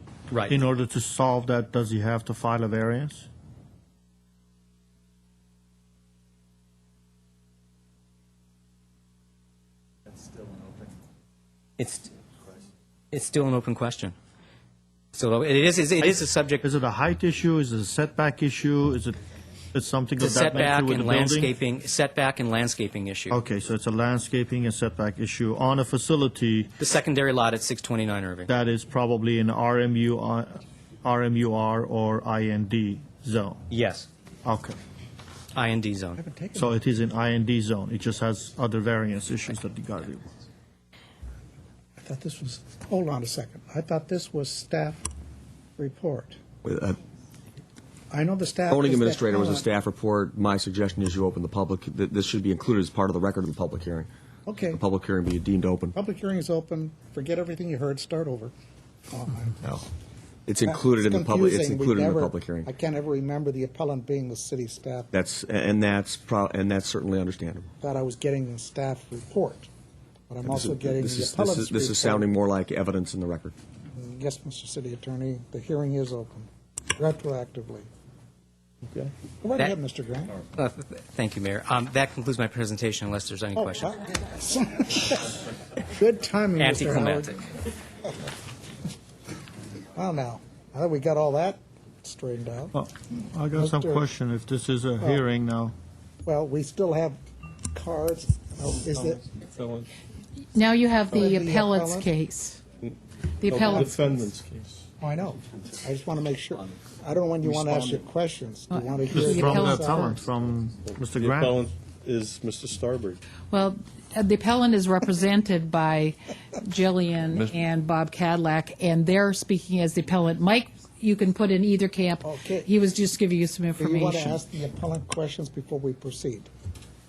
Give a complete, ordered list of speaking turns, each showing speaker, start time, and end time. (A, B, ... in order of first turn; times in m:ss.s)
0:00.3-0:00.6 A
0:00.5-0:03.3 B
0:11.8-0:12.1 A
0:13.1-0:14.2 A
0:15.1-0:16.6 A
0:16.6-0:19.2 B
0:19.7-0:21.5 B
0:20.2-0:23.4 A
0:23.3-0:26.7 B
0:26.8-0:28.5 A
0:28.5-0:33.6 B
0:33.7-0:34.1 A
0:34.4-0:34.8 B
0:35.5-0:36.2 A
0:36.2-0:36.8 C
0:36.6-0:40.2 B
0:42.0-0:45.0 C
0:45.8-0:46.4 C
0:46.6-0:47.0 D
0:48.1-0:49.7 C
0:48.7-0:54.1 D
0:54.5-0:54.8 C
0:54.7-0:56.0 D
0:56.0-0:58.5 C
0:59.1-0:59.6 C
1:00.5-1:02.7 D
1:00.6-1:05.1 C
1:05.1-1:07.7 D
1:07.8-1:09.7 C
1:10.3-1:12.3 C
1:10.5-1:13.6 D
1:13.9-1:17.9 C
1:18.8-1:19.1 E
1:19.4-1:20.4 C
1:20.6-1:23.9 A
1:23.6-1:27.4 C
1:26.6-1:27.4 A
1:30.0-1:32.8 C
1:32.7-1:35.8 B
1:33.5-1:34.0 C
1:36.2-1:37.2 C
1:37.7-1:39.2 C
1:38.9-1:39.9 E
1:40.5-1:42.6 F
1:41.1-1:42.1 C
1:42.8-1:44.8 E
1:43.4-1:44.0 F
1:45.0-1:50.1 C
1:47.4-1:47.8 E
1:48.7-1:50.2 F
1:49.1-1:51.6 B
1:51.1-1:53.2 E
1:53.5-2:04.4 F
2:02.2-2:02.7 C
2:03.8-2:06.5 C